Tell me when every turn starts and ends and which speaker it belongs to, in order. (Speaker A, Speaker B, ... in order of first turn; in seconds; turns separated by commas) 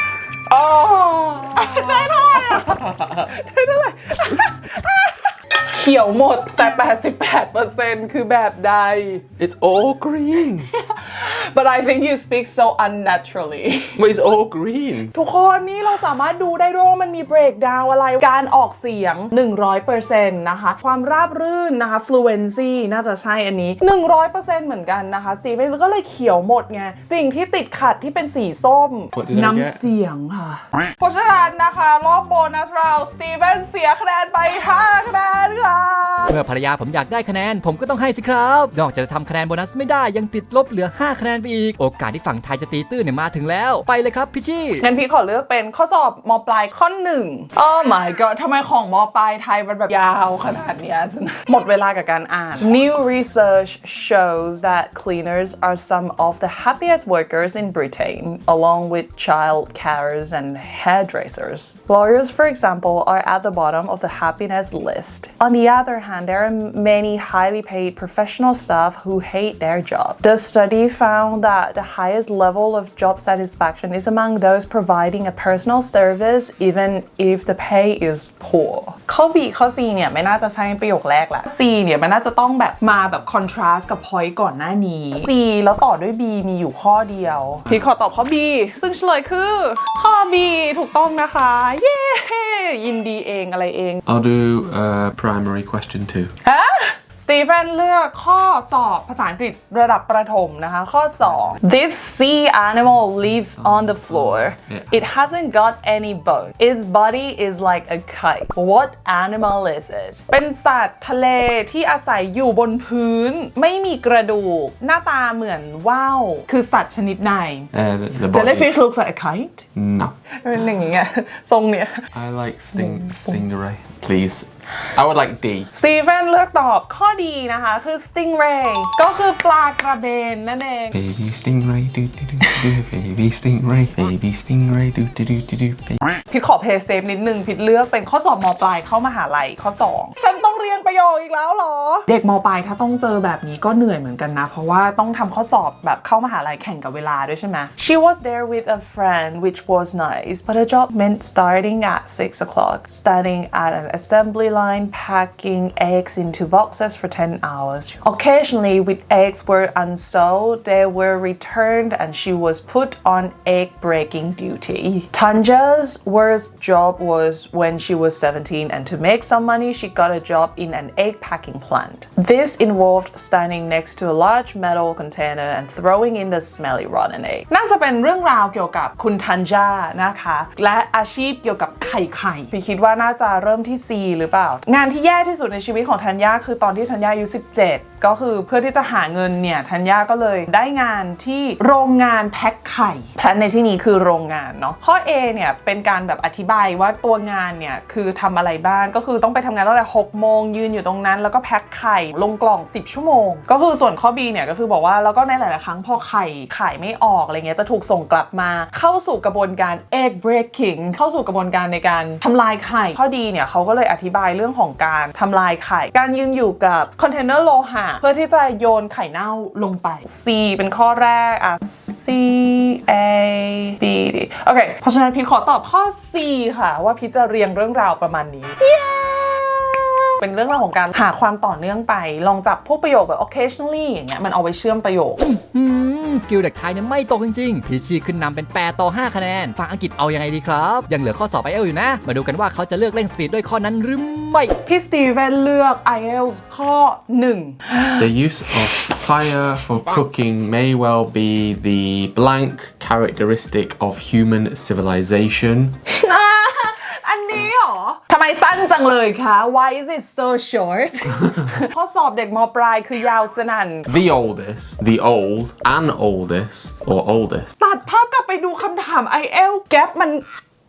Speaker A: 0.5-2.1, Speaker B: 1.5-9.3, Speaker A: 9.4-10.7, Speaker B: 10.7-14.0, Speaker A: 13.9-15.1, Speaker B: 15.1-36.4, Speaker A: 29.1-29.8, Speaker C: 36.3-44.8, Speaker B: 44.8-94.0, Speaker A: 94.0-96.3, Speaker B: 96.4-117.7, Speaker A: 103.6-105.0, Speaker A: 117.7-118.8, Speaker B: 118.3-119.7, Speaker A: 119.7-120.2, Speaker B: 120.4-122.0, Speaker A: 122.1-125.7, Speaker B: 122.7-123.4, Speaker B: 125.7-130.9, Speaker A: 130.9-136.0, Speaker B: 136.3-235.2, Speaker C: 235.2-244.5, Speaker B: 244.7-248.0, Speaker A: 248.0-255.8, Speaker B: 255.9-263.9, Speaker A: 263.9-267.5, Speaker B: 267.6-270.2